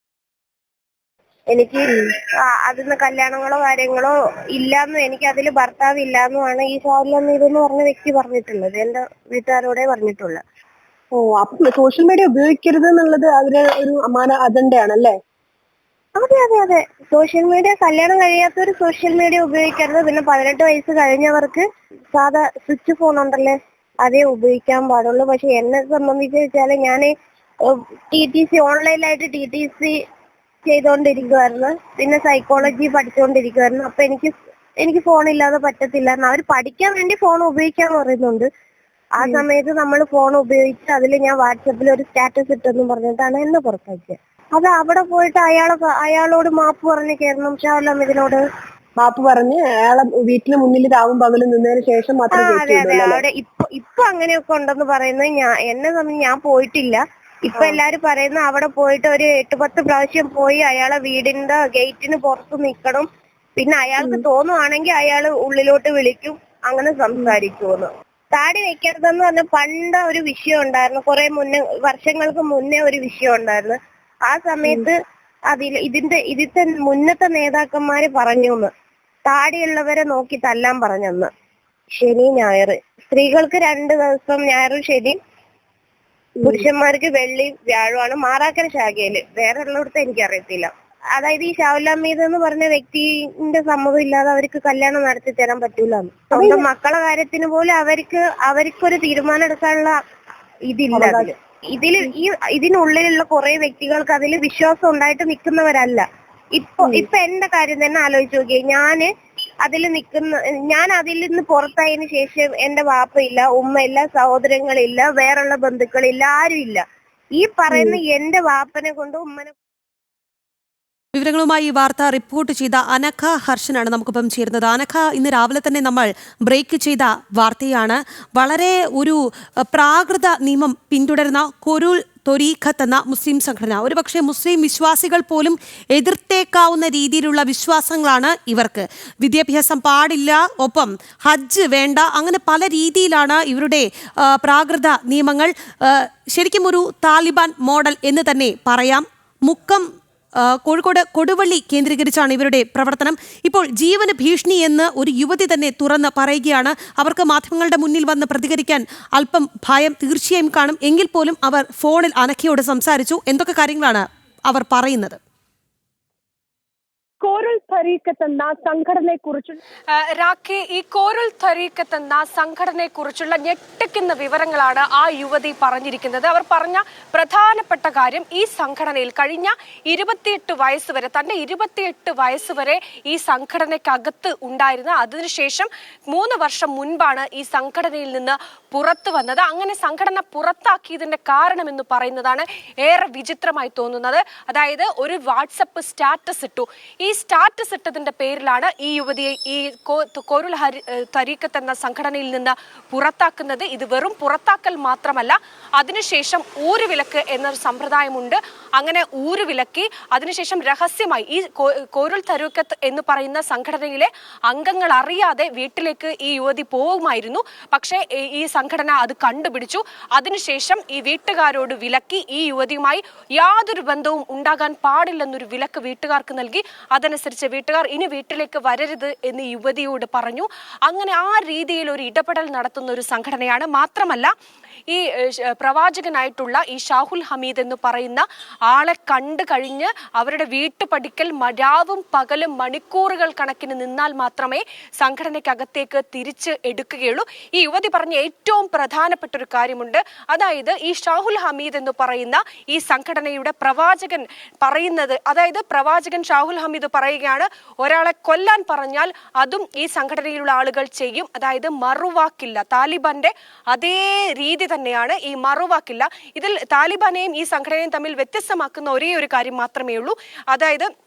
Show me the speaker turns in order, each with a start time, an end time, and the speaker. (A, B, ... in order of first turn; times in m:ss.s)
0:01.5-0:10.4 A
0:11.2-0:15.2 B
0:16.2-0:27.1 A
0:27.6-0:30.0 A
0:30.7-0:38.5 A
0:39.2-0:48.4 A
0:49.0-0:53.2 B
0:52.4-1:15.0 A
1:15.5-1:18.7 A
1:19.3-1:21.3 A
1:21.9-1:25.2 A
1:26.4-1:40.0 A
1:36.3-1:36.7 B
1:40.7-1:49.1 A
1:40.9-1:41.3 B
1:49.6-1:56.8 A
1:57.4-1:59.5 A
2:01.2-2:29.9 C
2:30.4-2:45.2 C
2:47.2-3:54.3 D
3:54.9-4:30.9 D